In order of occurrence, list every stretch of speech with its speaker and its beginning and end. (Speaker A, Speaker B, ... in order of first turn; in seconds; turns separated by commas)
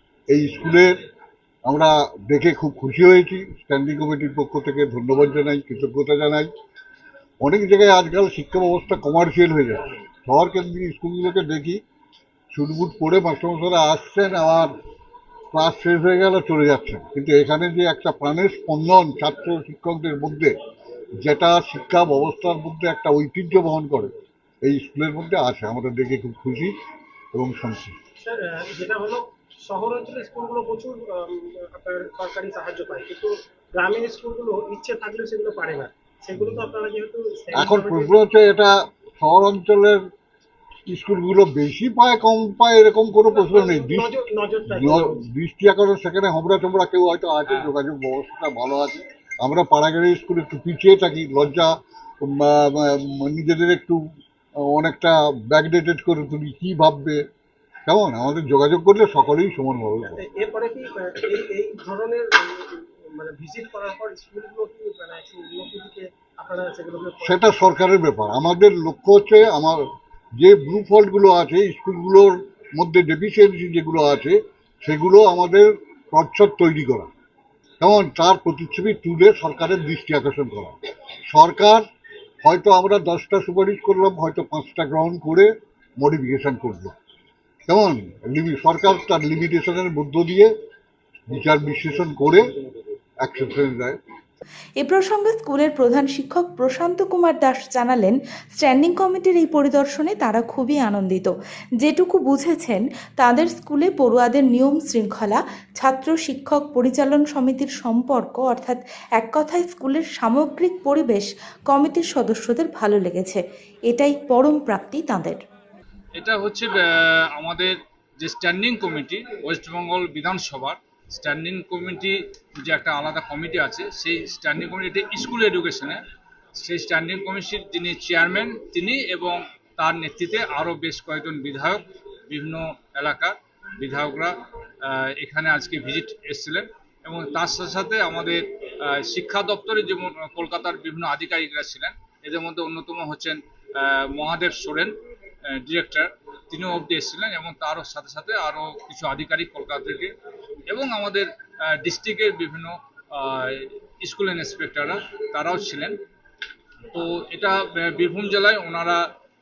Speaker A: 0.3-0.9, Speaker A: 1.6-6.5, Speaker A: 7.4-11.8, Speaker A: 12.5-14.7, Speaker A: 15.5-20.6, Speaker A: 21.2-24.1, Speaker A: 24.6-26.7, Speaker A: 27.3-28.0, Speaker B: 28.2-38.2, Speaker A: 37.5-40.0, Speaker A: 40.9-44.1, Speaker B: 43.3-45.2, Speaker A: 44.7-54.0, Speaker A: 54.6-57.2, Speaker A: 57.9-60.2, Speaker B: 60.0-67.5, Speaker A: 67.2-69.8, Speaker A: 70.4-77.1, Speaker A: 77.8-80.8, Speaker A: 81.3-81.8, Speaker A: 82.4-86.9, Speaker A: 87.7-90.5, Speaker A: 91.3-92.5, Speaker A: 93.2-94.0, Speaker C: 94.8-115.4, Speaker D: 116.2-126.0, Speaker D: 126.5-145.0, Speaker D: 145.5-150.1, Speaker D: 150.7-155.9, Speaker D: 156.9-159.0